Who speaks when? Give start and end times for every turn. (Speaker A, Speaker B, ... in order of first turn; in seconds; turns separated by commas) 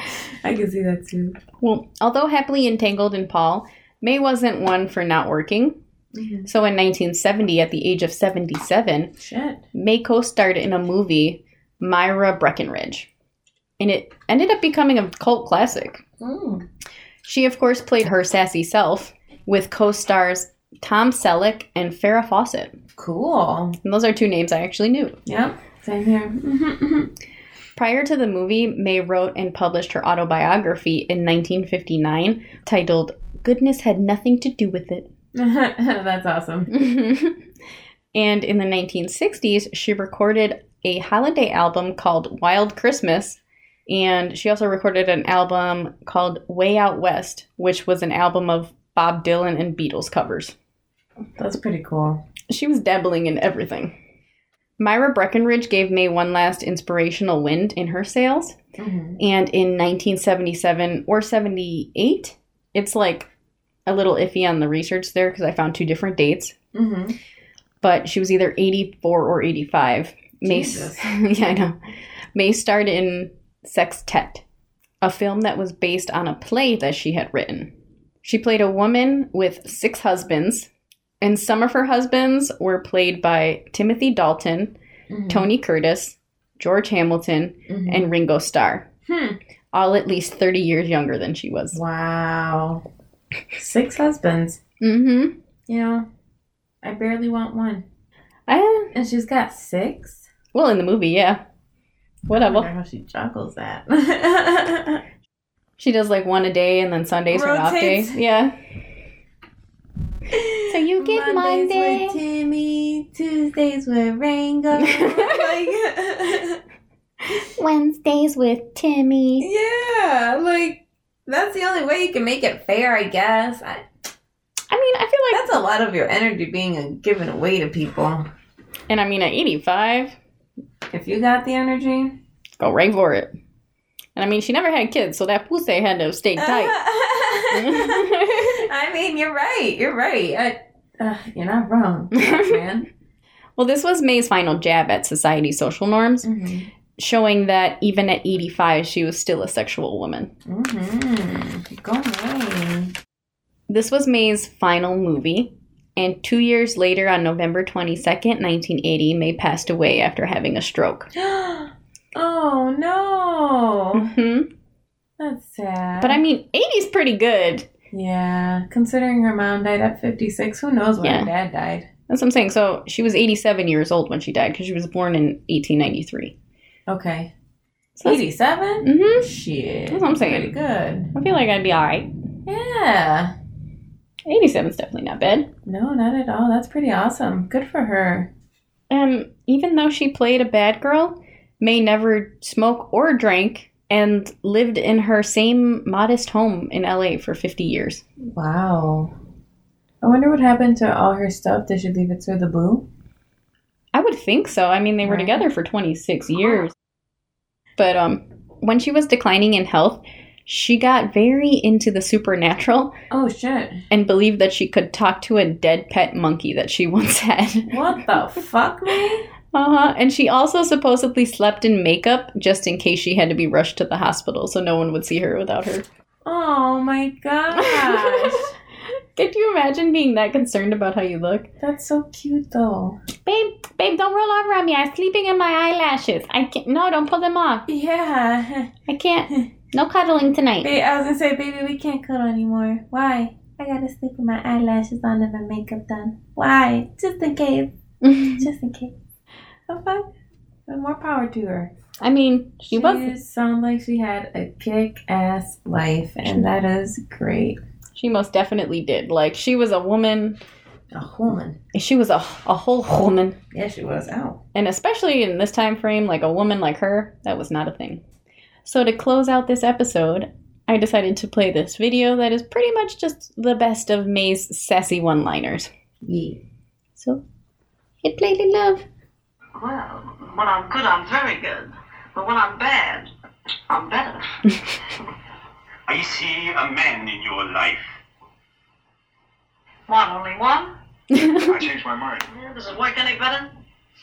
Speaker A: 0.4-1.4, Speaker B: 1.6-5.8, Speaker A: 6.1-6.5, Speaker B: 6.5-9.1, Speaker A: 9.2-9.6, Speaker B: 9.7-13.1, Speaker B: 13.8-16.0, Speaker A: 16.2-16.6, Speaker B: 17.2-22.8, Speaker A: 23.0-23.8, Speaker B: 23.8-25.2, Speaker A: 25.3-27.1, Speaker B: 27.8-35.1, Speaker A: 35.3-36.7, Speaker B: 36.7-37.4, Speaker B: 38.1-50.5, Speaker A: 51.4-52.2, Speaker B: 52.5-54.0, Speaker B: 54.8-58.6, Speaker A: 58.8-59.2, Speaker B: 59.2-63.3, Speaker B: 63.9-66.5, Speaker A: 66.7-67.2, Speaker B: 67.8-71.8, Speaker A: 70.4-71.0, Speaker B: 72.3-74.4, Speaker B: 75.0-77.7, Speaker B: 78.2-80.7, Speaker B: 81.2-84.7, Speaker A: 85.1-85.5, Speaker B: 85.3-88.9, Speaker A: 87.7-88.1, Speaker A: 89.1-89.4, Speaker B: 89.7-91.8, Speaker A: 91.7-92.8, Speaker A: 93.5-94.6, Speaker B: 94.8-95.3, Speaker A: 95.7-96.1, Speaker A: 96.8-97.8, Speaker B: 98.5-98.9, Speaker A: 98.9-100.3, Speaker B: 100.5-101.4, Speaker B: 102.3-102.7, Speaker A: 102.3-105.0, Speaker B: 105.8-108.5, Speaker A: 107.3-108.2, Speaker A: 110.3-116.6, Speaker B: 110.7-112.2, Speaker B: 114.8-115.5, Speaker B: 117.3-119.5, Speaker A: 119.4-123.8, Speaker B: 124.7-125.6, Speaker A: 125.3-128.3, Speaker B: 128.9-130.2, Speaker A: 130.9-132.2, Speaker B: 132.6-133.3, Speaker B: 134.2-136.8, Speaker A: 136.4-142.9, Speaker B: 137.5-138.6, Speaker B: 142.2-142.6, Speaker B: 143.6-146.3, Speaker A: 146.2-146.7, Speaker B: 147.0-150.3, Speaker A: 150.5-152.9, Speaker B: 153.7-161.1, Speaker A: 161.2-164.1, Speaker B: 164.0-164.5, Speaker A: 165.2-166.2, Speaker B: 166.0-167.7, Speaker A: 167.9-171.9, Speaker B: 171.0-171.3, Speaker B: 172.1-176.3, Speaker A: 176.9-177.3, Speaker A: 178.0-181.1, Speaker B: 178.8-179.3, Speaker B: 179.9-180.6, Speaker B: 181.1-182.1, Speaker A: 182.5-183.3, Speaker B: 184.3-185.5, Speaker A: 185.7-188.3, Speaker B: 188.9-198.0, Speaker A: 198.2-199.1, Speaker A: 200.0-202.9, Speaker B: 203.9-206.7, Speaker A: 205.0-205.5, Speaker B: 207.8-212.9, Speaker A: 213.1-213.8, Speaker B: 213.9-217.7, Speaker A: 217.7-219.3, Speaker B: 219.5-225.8, Speaker A: 226.2-228.5, Speaker B: 227.6-231.5, Speaker A: 231.6-233.0, Speaker B: 233.2-237.7, Speaker A: 237.7-238.7, Speaker B: 238.9-240.7, Speaker A: 240.6-247.7, Speaker B: 248.0-248.4, Speaker A: 248.4-248.9, Speaker A: 249.7-250.1, Speaker A: 250.7-251.7, Speaker B: 252.0-253.1, Speaker A: 252.7-257.6, Speaker B: 258.0-260.4, Speaker A: 260.9-261.6, Speaker B: 261.7-263.4, Speaker A: 263.5-264.4, Speaker B: 264.6-268.0, Speaker B: 268.6-275.7, Speaker A: 276.0-276.4, Speaker B: 277.0-277.2, Speaker B: 278.0-278.9, Speaker C: 279.6-283.1, Speaker C: 283.7-284.2, Speaker D: 285.9-287.8, Speaker C: 289.9-290.7, Speaker B: 291.1-291.4, Speaker D: 291.3-292.2, Speaker C: 292.2-293.5